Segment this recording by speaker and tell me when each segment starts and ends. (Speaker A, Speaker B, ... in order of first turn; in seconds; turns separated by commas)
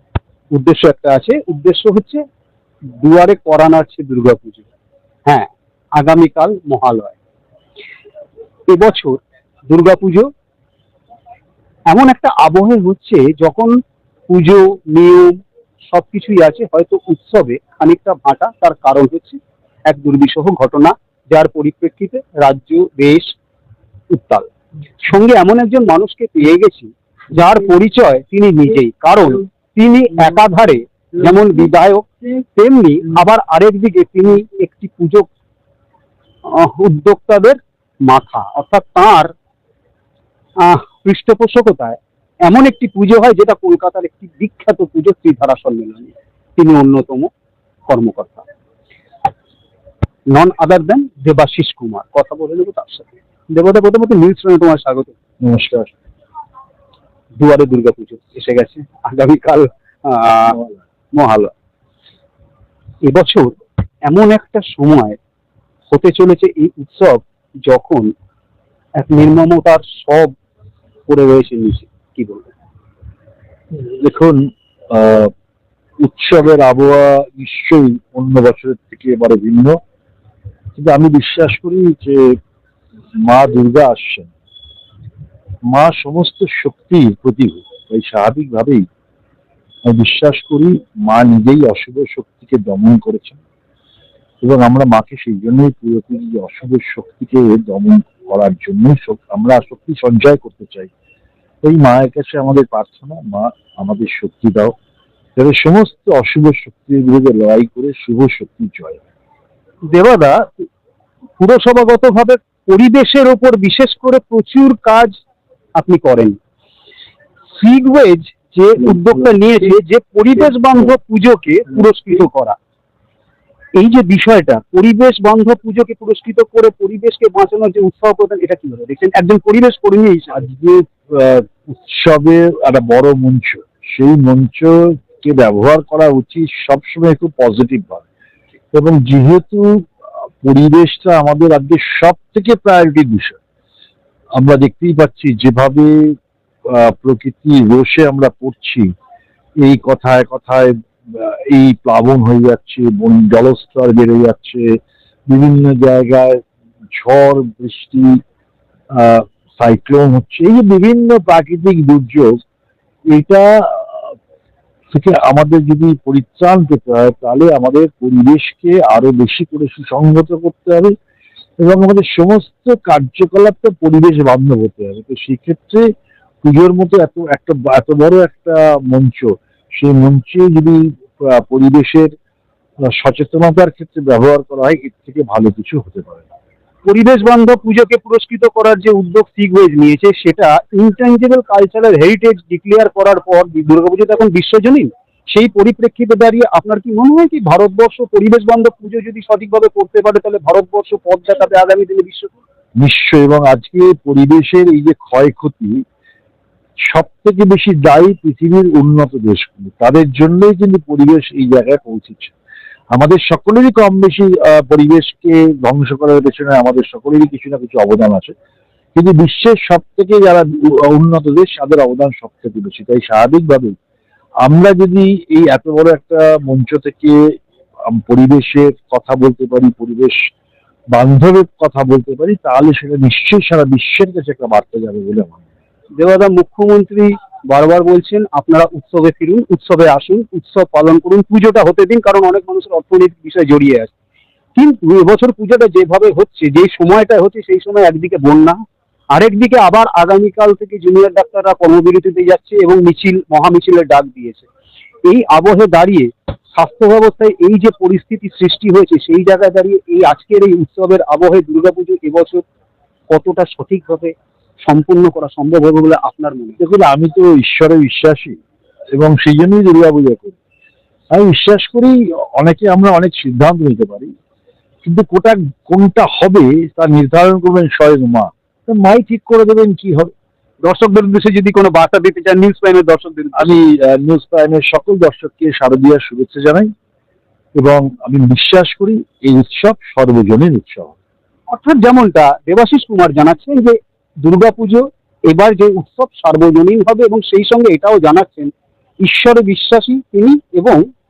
Speaker A: 0.5-2.2, Speaker A: 3.0-4.6, Speaker A: 5.2-7.2, Speaker A: 8.7-9.2, Speaker A: 9.7-10.3, Speaker A: 11.9-13.7, Speaker A: 14.3-15.4, Speaker A: 15.9-23.3, Speaker A: 24.1-24.5, Speaker A: 25.0-35.3, Speaker A: 36.5-39.3, Speaker A: 40.6-47.3, Speaker A: 47.9-48.5, Speaker A: 50.3-55.1, Speaker B: 55.4-55.9, Speaker A: 57.3-60.6, Speaker A: 61.1-61.5, Speaker A: 63.0-63.5, Speaker A: 64.1-65.2, Speaker A: 65.9-68.1, Speaker A: 69.0-70.3, Speaker A: 71.1-72.5, Speaker B: 73.7-75.3, Speaker B: 76.0-79.8, Speaker B: 80.8-82.3, Speaker B: 83.2-84.3, Speaker B: 85.7-88.8, Speaker B: 89.8-93.4, Speaker B: 94.4-100.9, Speaker B: 101.6-104.7, Speaker B: 105.4-109.0, Speaker A: 109.9-110.7, Speaker A: 111.4-115.1, Speaker A: 115.8-116.3, Speaker A: 117.5-122.6, Speaker A: 123.7-130.4, Speaker B: 130.3-138.0, Speaker B: 138.7-139.9, Speaker B: 140.4-143.4, Speaker B: 144.4-146.2, Speaker B: 146.7-148.9, Speaker B: 149.6-154.8, Speaker B: 155.3-158.2, Speaker B: 158.9-162.3, Speaker B: 163.1-164.1, Speaker B: 164.9-170.9, Speaker B: 171.6-175.9, Speaker B: 176.4-182.1, Speaker B: 182.8-186.3, Speaker A: 186.8-202.3, Speaker B: 202.8-205.8, Speaker B: 206.8-212.3, Speaker B: 212.9-218.3, Speaker B: 218.9-223.8, Speaker B: 224.4-227.3, Speaker B: 227.9-230.2, Speaker B: 230.9-235.4, Speaker A: 235.9-243.9, Speaker A: 244.6-248.6, Speaker A: 249.1-254.4, Speaker A: 255.0-262.4, Speaker A: 263.1-266.6, Speaker B: 266.6-268.4, Speaker B: 268.9-270.4, Speaker B: 271.1-274.1, Speaker B: 274.8-280.1, Speaker A: 280.6-283.6, Speaker B: 283.3-286.7, Speaker B: 287.5-290.9, Speaker A: 291.5-298.5, Speaker A: 299.0-300.8